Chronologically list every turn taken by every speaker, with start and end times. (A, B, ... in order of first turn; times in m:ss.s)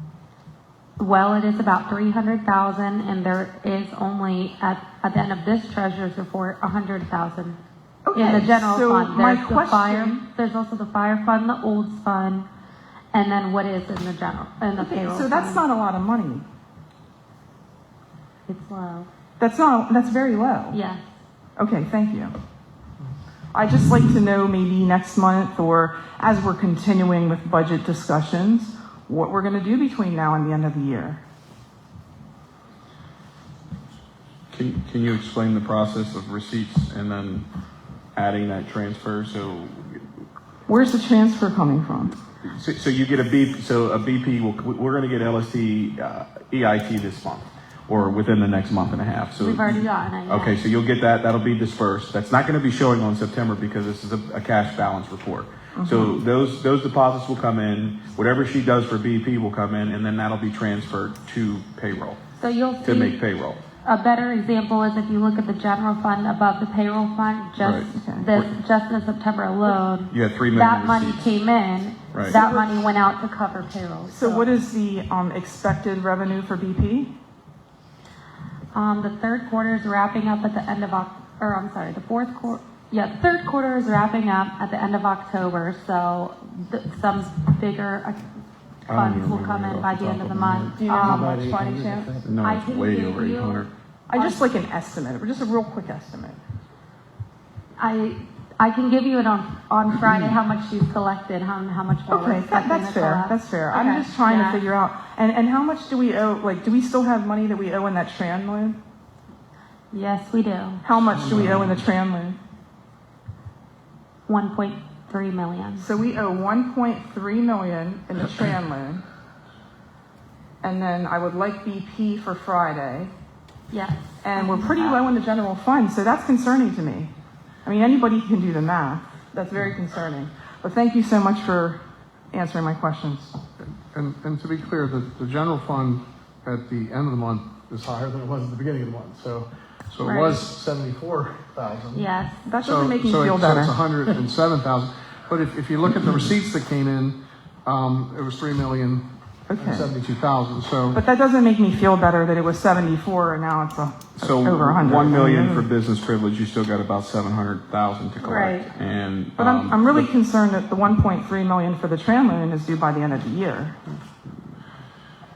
0:01.0-0:07.6 A
0:08.0-0:10.2 B
0:08.1-0:12.5 A
0:13.1-0:15.6 A
0:14.8-0:16.4 B
0:18.5-0:19.1 A
0:19.4-0:20.8 B
0:20.7-0:21.0 A
0:21.6-0:22.3 B
0:23.5-0:31.2 B
0:34.5-0:37.5 C
0:38.1-0:40.0 C
0:40.7-0:42.1 B
0:42.4-1:02.2 C
0:49.4-0:50.6 A
0:55.7-0:56.2 B
1:02.4-1:03.2 A
1:02.8-1:03.6 C
1:03.8-1:14.5 A
1:07.6-1:08.5 C
1:08.0-1:08.3 B
1:10.1-1:11.3 C
1:12.3-1:12.7 B
1:14.1-1:17.1 B
1:18.7-1:28.2 A
1:28.9-1:30.7 C
1:28.9-1:31.4 A
1:30.8-1:32.2 B
1:32.2-1:33.7 C
1:32.4-1:34.5 A
1:34.1-1:36.4 B
1:37.8-1:44.6 A
1:42.1-1:48.8 B
1:49.9-1:50.8 A
1:50.8-1:52.4 B
1:54.3-1:55.9 A
1:55.8-1:59.0 B
2:00.6-2:03.1 B
2:03.7-2:05.0 A
2:04.2-2:07.1 B
2:07.6-2:11.8 B
2:12.3-2:13.3 B
2:13.7-2:22.0 D
2:20.0-2:20.4 A
2:21.9-2:22.4 A
2:22.4-2:23.8 B
2:22.6-2:31.0 D
2:29.5-2:29.9 B
2:30.9-2:35.7 B
2:34.2-2:40.1 C
2:38.2-2:38.7 A
2:39.4-2:43.8 B